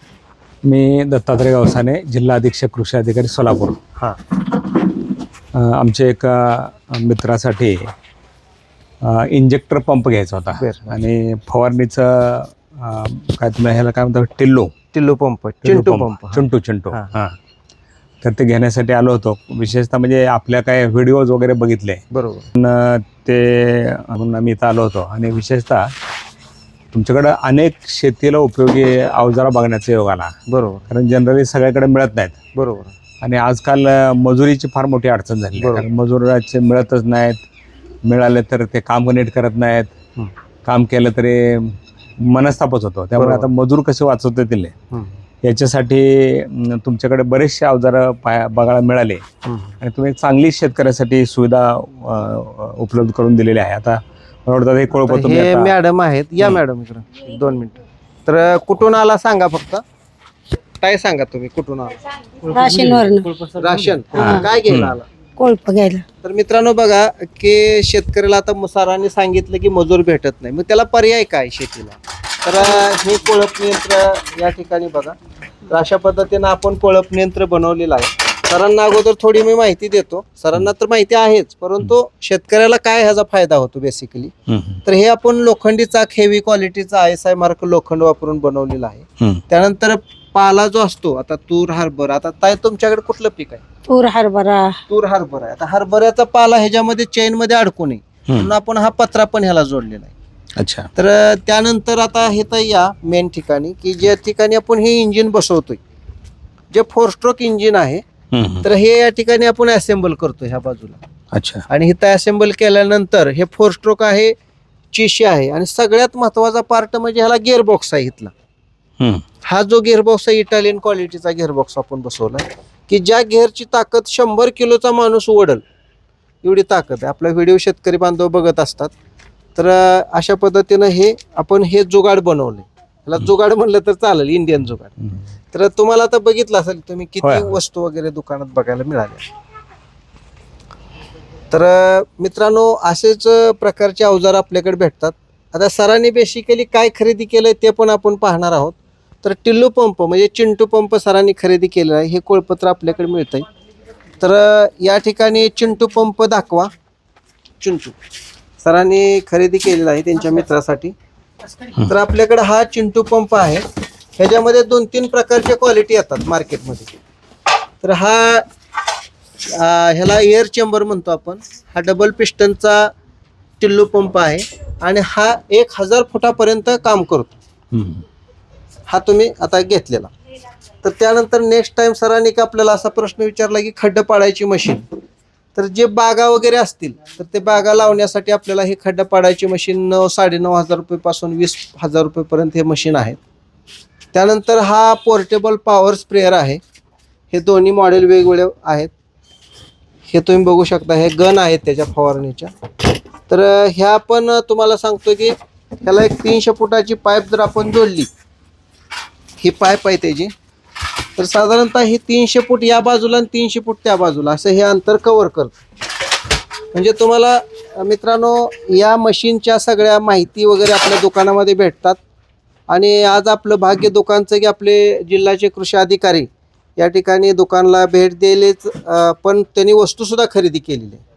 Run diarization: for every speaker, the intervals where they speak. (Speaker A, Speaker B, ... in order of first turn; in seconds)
Speaker A: 0.6-3.8, 5.5-7.9, 9.0-14.7, 15.6-17.4, 18.2-22.0, 22.5-25.9, 26.9-30.3, 30.9-32.4, 33.2-37.4, 38.0-39.9, 40.6-44.7, 45.4-49.2, 49.8-55.7, 64.1-64.9, 84.5-84.8, 100.6-100.9, 108.3-108.6, 111.3-111.6, 137.2-137.6, 177.7-178.0
Speaker B: 10.6-10.9, 14.9-17.1, 22.1-22.5, 30.5-30.9, 32.5-32.9, 35.6-35.9, 43.2-43.5, 49.4-49.8, 55.0-59.8, 60.8-62.0, 63.5-65.1, 66.2-75.2, 75.7-84.3, 84.8-93.6, 94.9-100.1, 101.0-105.8, 106.7-108.0, 108.6-111.0, 111.7-114.3, 114.9-118.3, 119.5-125.6, 126.4-128.9, 129.5-134.9, 135.5-139.2, 141.5-153.4, 154.2-156.7, 157.6-157.9, 158.6-160.9, 161.8-163.6, 164.2-166.9, 167.8-168.4, 169.4-172.9, 173.6-177.3, 178.9-180.1, 180.8-184.8, 185.5-193.2, 194.1-196.6, 197.3-198.9, 200.1-202.5, 203.3-208.1, 209.4-210.3, 211.2-215.6, 216.7-222.0, 222.7-231.0
Speaker C: 62.5-63.3, 64.2-64.4, 65.4-66.0, 93.9-94.8